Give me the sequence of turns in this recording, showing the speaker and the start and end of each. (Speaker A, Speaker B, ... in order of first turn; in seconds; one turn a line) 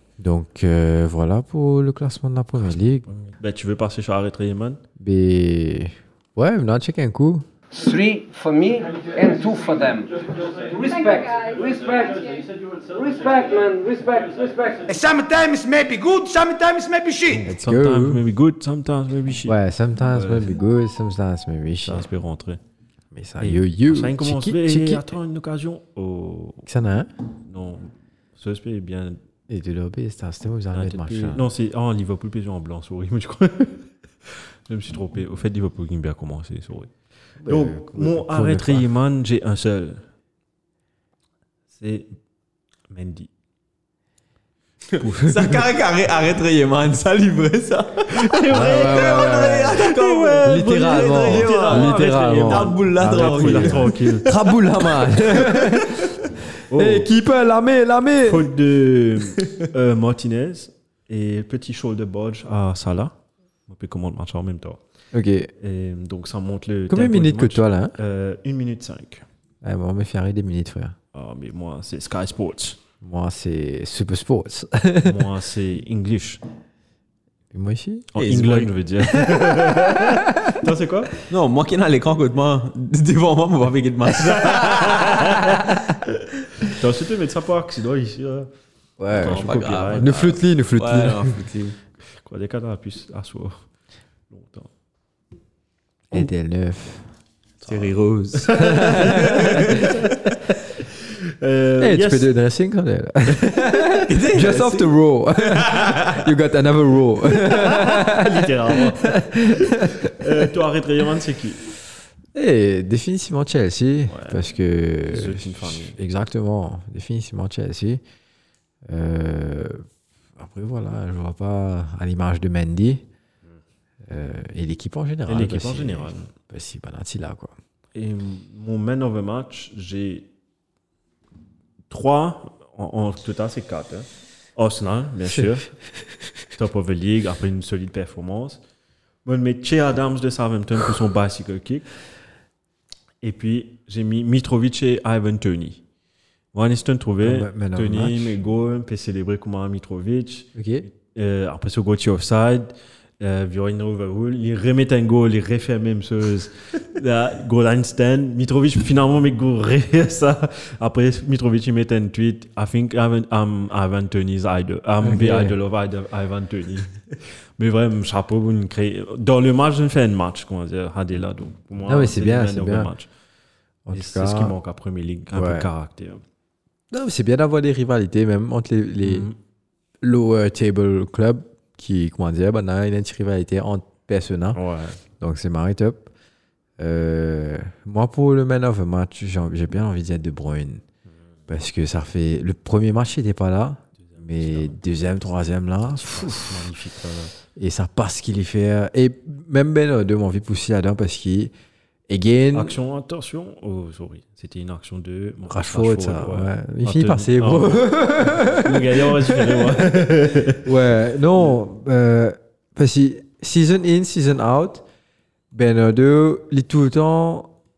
Speaker A: 0.2-3.1
Speaker B: 2.6-4.8
Speaker A: 5.0-7.5
Speaker C: 7.8-14.9
Speaker D: 14.9-17.4
Speaker B: 17.3-19.6
Speaker A: 17.5-18.2
Speaker A: 19.5-22.1
Speaker B: 20.1-20.6
Speaker B: 21.8-22.6
Speaker A: 23.1-25.1
Speaker B: 23.4-26.6
Speaker A: 26.7-27.1
Speaker B: 27.5-29.2
Speaker A: 29.5-31.5
Speaker B: 30.7-36.9
Speaker A: 37.5-38.9
Speaker B: 37.5-40.0
Speaker B: 41.7-42.1
Speaker B: 42.9-43.3
Speaker E: 44.9-54.4
Speaker B: 45.0-45.6
Speaker B: 48.1-54.3
Speaker A: 48.5-49.9
Speaker A: 50.4-56.1
Speaker B: 56.7-57.1
Speaker A: 56.7-58.5
Speaker B: 58.2-63.1
Speaker B: 63.7-64.8
Speaker A: 65.1-65.5
Speaker B: 65.6-69.2
Speaker A: 66.9-68.0
Speaker A: 69.6-71.0
Speaker B: 71.1-72.8
Speaker A: 73.0-75.2
Speaker B: 75.0-76.4
Speaker A: 77.5-78.1
Speaker B: 78.1-81.2
Speaker E: 78.2-78.7
Speaker A: 79.2-80.6
Speaker E: 81.3-85.5
Speaker B: 84.2-88.5
Speaker A: 89.0-91.3
Speaker B: 89.1-90.3
Speaker E: 89.2-91.8
Speaker B: 92.2-93.7
Speaker B: 94.3-94.7
Speaker A: 96.1-97.1
Speaker B: 97.6-100.3
Speaker E: 97.6-99.9
Speaker A: 98.6-100.0
Speaker B: 101.4-102.3
Speaker A: 101.8-110.2
Speaker E: 104.0-104.9
Speaker E: 105.5-106.3
Speaker B: 107.5-111.7
Speaker A: 112.3-118.0
Speaker B: 114.1-114.4
Speaker B: 115.1-116.0
Speaker A: 118.9-119.8
Speaker A: 120.4-123.0
Speaker A: 124.1-127.5
Speaker B: 125.3-126.3
Speaker B: 128.0-130.3
Speaker B: 131.9-135.7
Speaker B: 136.5-138.6
Speaker B: 139.2-141.9
Speaker B: 143.2-145.8
Speaker B: 146.5-173.1
Speaker A: 147.2-148.4
Speaker A: 150.6-150.9
Speaker A: 165.0-165.6
Speaker A: 171.8-172.9
Speaker A: 173.9-174.5
Speaker B: 173.9-176.2
Speaker A: 175.3-175.7
Speaker A: 176.9-179.3
Speaker B: 179.0-179.3
Speaker A: 180.0-184.6
Speaker B: 184.6-185.0
Speaker A: 185.2-186.1
Speaker A: 186.8-190.8
Speaker A: 191.5-196.5
Speaker B: 194.1-194.8
Speaker B: 195.8-197.3
Speaker A: 197.6-201.5
Speaker A: 202.1-202.8
Speaker B: 202.5-210.7
Speaker A: 205.5-209.9
Speaker A: 210.6-214.8
Speaker A: 215.5-217.5